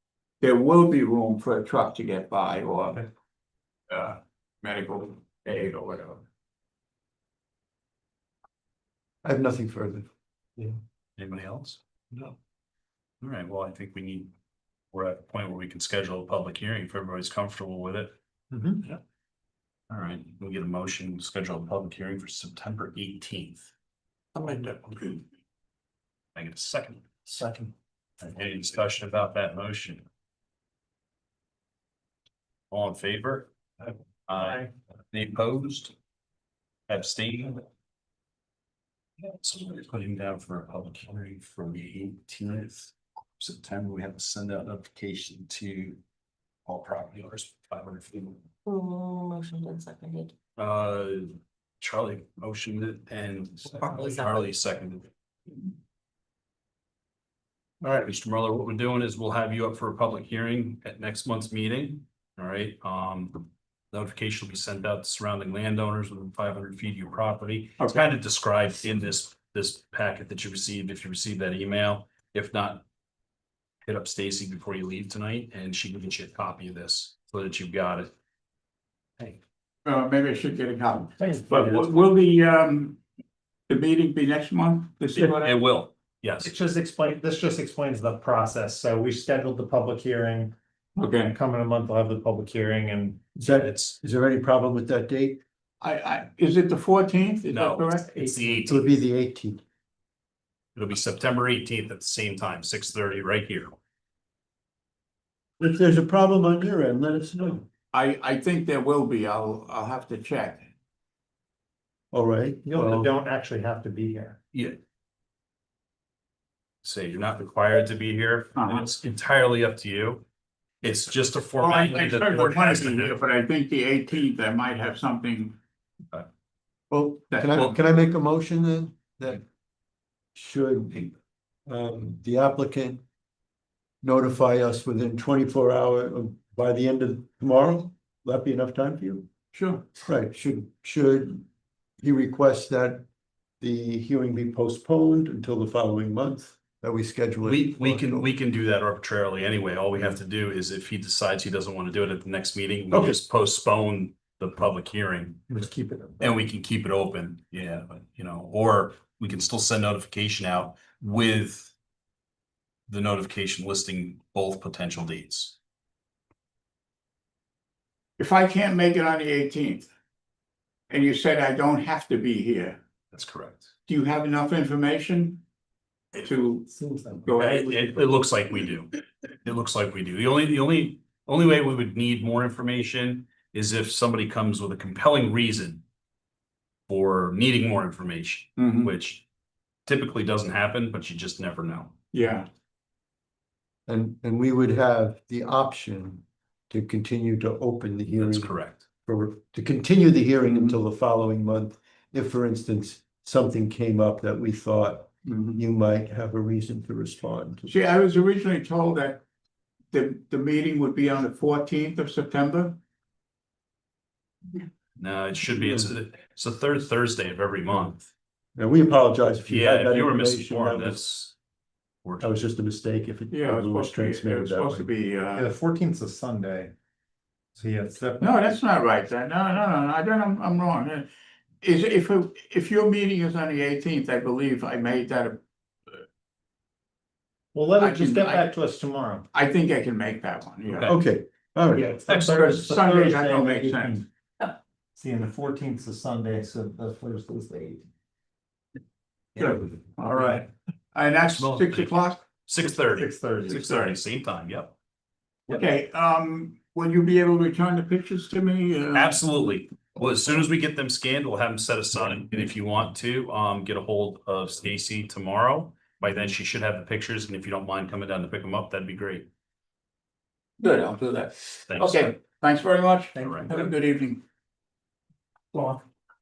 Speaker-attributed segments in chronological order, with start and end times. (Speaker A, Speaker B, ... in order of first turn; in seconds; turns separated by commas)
Speaker A: 0.4-3.1, Speaker A: 3.9-6.2, Speaker B: 9.2-10.1, Speaker C: 11.2-11.8, Speaker C: 13.2-14.3, Speaker C: 14.9-18.1, Speaker D: 18.5-18.8, Speaker C: 19.9-23.7, Speaker A: 24.4-25.2, Speaker C: 26.4-27.1, Speaker D: 27.3-27.7, Speaker C: 28.2-30.0, Speaker C: 32.7-33.5, Speaker C: 34.3-35.9, Speaker C: 36.9-37.6, Speaker C: 39.2-46.0, Speaker C: 46.7-48.4, Speaker E: 48.6-50.3, Speaker C: 50.6-55.7, Speaker E: 53.7-54.5, Speaker C: 57.9-72.8, Speaker C: 73.9-78.1, Speaker A: 79.8-83.0, Speaker D: 81.2-81.9, Speaker A: 83.7-85.5, Speaker C: 85.3-86.5, Speaker D: 86.4-90.6, Speaker A: 91.0-91.3, Speaker D: 91.1-93.3, Speaker B: 93.4-95.4, Speaker C: 93.5-94.0, Speaker A: 95.8-98.1, Speaker C: 97.5-98.8, Speaker D: 98.2-98.5, Speaker B: 98.7-99.6, Speaker C: 100.8-103.8, Speaker B: 105.6-107.7, Speaker A: 107.9-110.7, Speaker B: 112.1-113.1, Speaker D: 112.7-114.4, Speaker C: 116.8-120.2, Speaker A: 118.6-118.9, Speaker C: 120.8-123.2, Speaker A: 121.6-125.6, Speaker B: 126.9-129.4, Speaker A: 127.3-127.8, Speaker B: 130.3-131.2, Speaker B: 131.7-133.0, Speaker B: 134.0-139.3, Speaker A: 139.5-139.9, Speaker B: 140.0-141.4, Speaker B: 142.0-143.1, Speaker B: 143.6-148.3, Speaker C: 147.4-155.7, Speaker B: 152.9-153.2, Speaker D: 155.5-156.4, Speaker C: 156.2-161.7, Speaker C: 162.9-165.6, Speaker A: 168.2-169.9, Speaker A: 170.9-172.8, Speaker C: 173.1-173.7, Speaker A: 173.9-175.4, Speaker A: 176.2-176.7, Speaker D: 176.7-177.3, Speaker A: 177.2-178.0, Speaker C: 177.3-185.8, Speaker C: 186.9-189.2, Speaker A: 188.6-188.9, Speaker C: 189.9-191.9, Speaker A: 192.1-192.5, Speaker B: 193.9-207.7, Speaker C: 198.2-198.8, Speaker A: 200.5-200.8, Speaker A: 205.3-205.6, Speaker A: 207.7-209.2, Speaker A: 209.9-212.8, Speaker C: 215.0-218.1, Speaker B: 218.6-221.0, Speaker C: 219.5-221.3, Speaker C: 222.0-222.3, Speaker B: 222.2-224.9, Speaker A: 223.3-225.5, Speaker D: 225.3-226.7, Speaker D: 227.6-228.4, Speaker A: 228.2-231.1, Speaker A: 231.6-235.4, Speaker D: 237.5-239.3, Speaker A: 237.8-238.5, Speaker A: 239.3-240.9, Speaker C: 240.7-240.9, Speaker B: 240.8-242.6, Speaker D: 241.7-244.1, Speaker C: 242.1-242.5, Speaker A: 242.2-244.0, Speaker D: 245.0-247.8, Speaker A: 249.4-252.2, Speaker D: 250.0-250.4, Speaker C: 251.3-254.7, Speaker D: 252.9-253.7, Speaker A: 253.5-253.9, Speaker A: 255.5-259.2, Speaker C: 258.9-269.3, Speaker A: 270.6-274.2, Speaker C: 271.7-272.1, Speaker C: 273.2-273.6, Speaker D: 273.2-273.6, Speaker D: 275.5-275.8